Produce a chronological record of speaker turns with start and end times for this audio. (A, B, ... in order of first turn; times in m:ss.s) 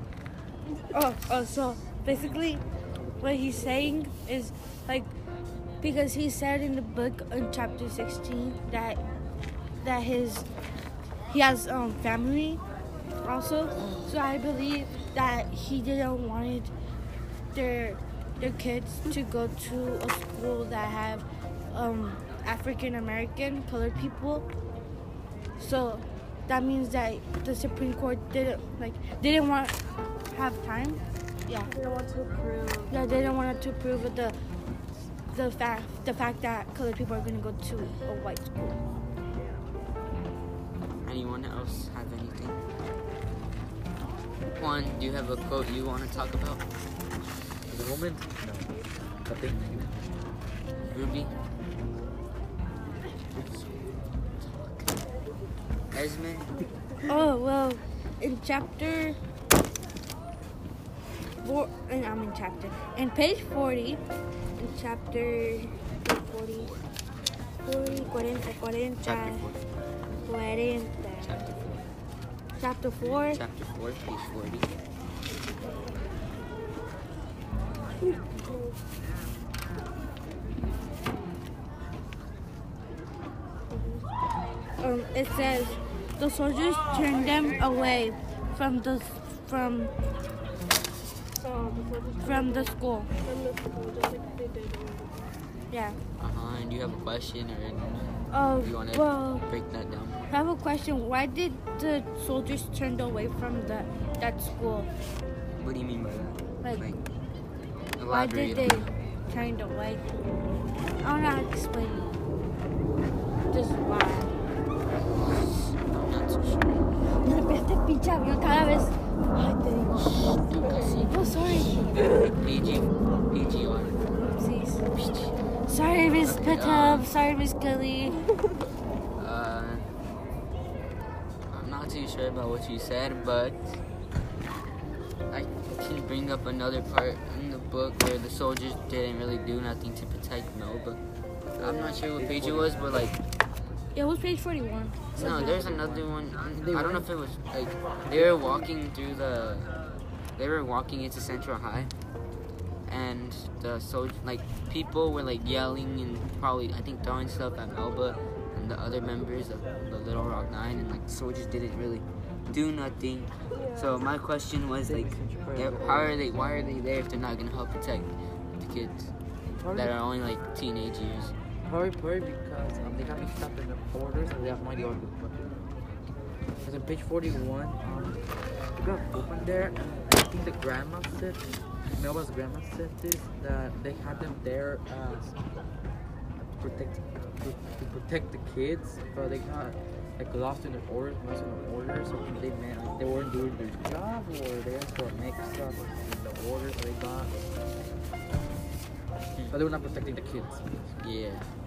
0:00.9-0:02.6 A
0:03.2-0:05.1 A
0:05.8-0:09.0 A
0:09.8-0:10.5 A
0:11.3-0:12.6 A
0:13.2-0:16.7 A
0:17.5-0:24.5 A
0:25.6-0:29.8 A
0:30.3-0:31.7 A
0:31.7-0:33.4 B
0:32.9-0:34.4 A
0:35.3-0:38.8 A
0:39.4-0:39.6 B
0:41.0-0:42.7 C
0:44.5-0:46.6 C
0:47.7-0:50.1 D
0:50.8-0:51.4 C
0:53.3-0:55.0 C
0:55.9-0:56.6 C
0:57.1-0:59.2 A
1:01.4-1:04.0 A
1:04.6-1:06.7 A
1:06.5-1:06.9 C
1:07.6-1:09.5 A
1:09.0-1:09.6 C
1:10.2-1:11.4 A
1:11.2-1:11.9 C
1:12.6-1:13.4 A
1:13.3-1:14.8 C
1:18.1-1:18.8 B
1:24.8-1:29.9 A
1:31.4-1:35.2 B
1:32.2-1:33.1 A
1:35.7-1:36.0 A
1:36.2-1:40.3 C
1:38.3-1:39.5 A
1:40.3-1:44.9 A
1:45.6-1:47.0 C
1:48.0-1:48.9 C
1:48.0-1:50.0 A
1:51.0-1:52.2 A
1:53.5-1:54.3 A
1:55.2-1:56.9 C
1:57.1-2:00.3 A
2:00.0-2:04.0 C
2:00.6-2:00.9 B
2:01.0-2:01.9 A
2:04.1-2:04.9 A
2:05.0-2:05.4 C
2:05.6-2:08.2 A
2:06.2-2:07.1 C
2:09.2-2:09.9 C
2:11.5-2:13.6 C
2:15.3-2:21.0 C
2:21.6-2:23.1 D
2:21.6-2:23.2 C
2:23.9-2:25.6 A
2:25.2-2:27.1 D
2:25.2-2:29.8 C
2:28.0-2:28.5 D
2:30.4-2:31.9 C
2:32.9-2:49.1 C
2:43.5-2:43.9 B
2:44.8-2:46.2 D
2:49.6-2:50.0 D
2:49.7-2:51.3 C
2:51.6-2:55.7 D
2:56.6-3:05.4 D
3:06.4-3:17.4 D
3:19.5-3:21.0 D
3:21.0-3:21.5 C